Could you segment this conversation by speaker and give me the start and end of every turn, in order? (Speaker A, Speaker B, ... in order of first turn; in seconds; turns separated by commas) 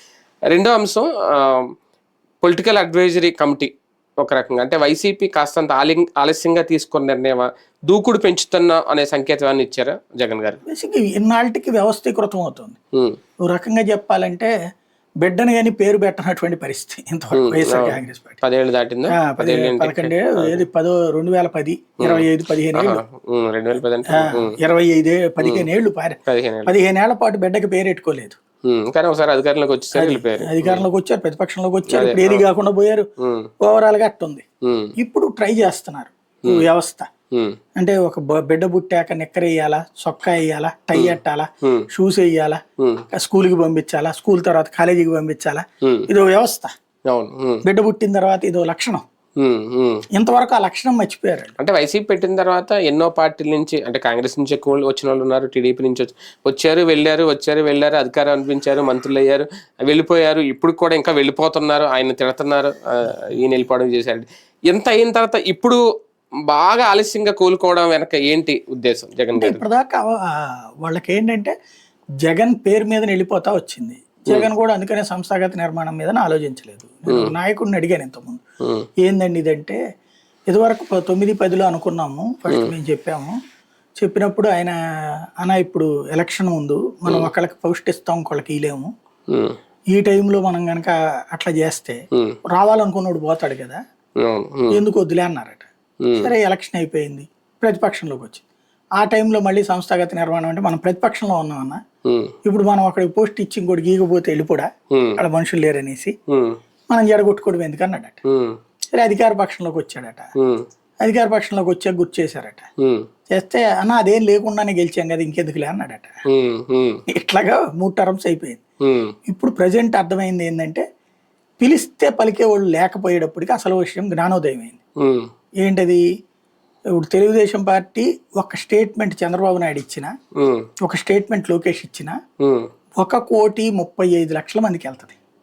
Speaker A: 0.5-1.7, Speaker A: 2.4-10.6, Speaker B: 10.7-12.8, Speaker B: 13.4-14.5, Speaker B: 15.2-18.4, Speaker A: 17.3-20.6, Speaker B: 19.1-23.0, Speaker A: 22.0-24.6, Speaker B: 24.1-28.4, Speaker A: 26.3-26.7, Speaker A: 28.7-30.9, Speaker B: 29.9-33.1, Speaker A: 31.9-32.5, Speaker A: 33.2-33.5, Speaker B: 33.6-34.4, Speaker A: 34.6-34.9, Speaker B: 35.0-37.1, Speaker B: 37.8-42.6, Speaker A: 41.0-41.9, Speaker A: 42.8-43.0, Speaker B: 43.1-46.7, Speaker A: 47.1-47.6, Speaker B: 47.6-49.0, Speaker A: 49.4-50.0, Speaker B: 50.1-51.5, Speaker A: 51.6-65.8, Speaker A: 66.5-69.6, Speaker B: 69.3-71.5, Speaker B: 72.2-78.4, Speaker A: 77.1-77.3, Speaker B: 79.0-79.8, Speaker B: 80.5-83.3, Speaker B: 84.0-84.8, Speaker B: 85.4-88.9, Speaker A: 89.3-89.5, Speaker B: 89.9-92.0, Speaker B: 92.5-93.8, Speaker A: 94.2-94.8, Speaker B: 94.7-98.4, Speaker A: 96.0-96.3, Speaker B: 99.0-101.8, Speaker A: 102.0-102.3, Speaker B: 102.4-106.1, Speaker A: 104.9-105.2, Speaker A: 106.3-106.6, Speaker B: 106.9-108.2, Speaker A: 108.3-108.5, Speaker B: 108.9-110.3, Speaker A: 110.4-110.6, Speaker B: 111.0-112.7, Speaker A: 112.8-113.0, Speaker B: 113.3-116.2, Speaker A: 116.3-117.0, Speaker B: 117.1-118.6, Speaker A: 118.8-119.1, Speaker B: 119.3-120.8, Speaker B: 121.6-124.8, Speaker A: 125.0-125.3, Speaker B: 125.6-126.0, Speaker B: 127.0-130.1, Speaker A: 130.4-130.7, Speaker B: 130.8-132.2, Speaker A: 132.4-132.7, Speaker B: 133.0-135.2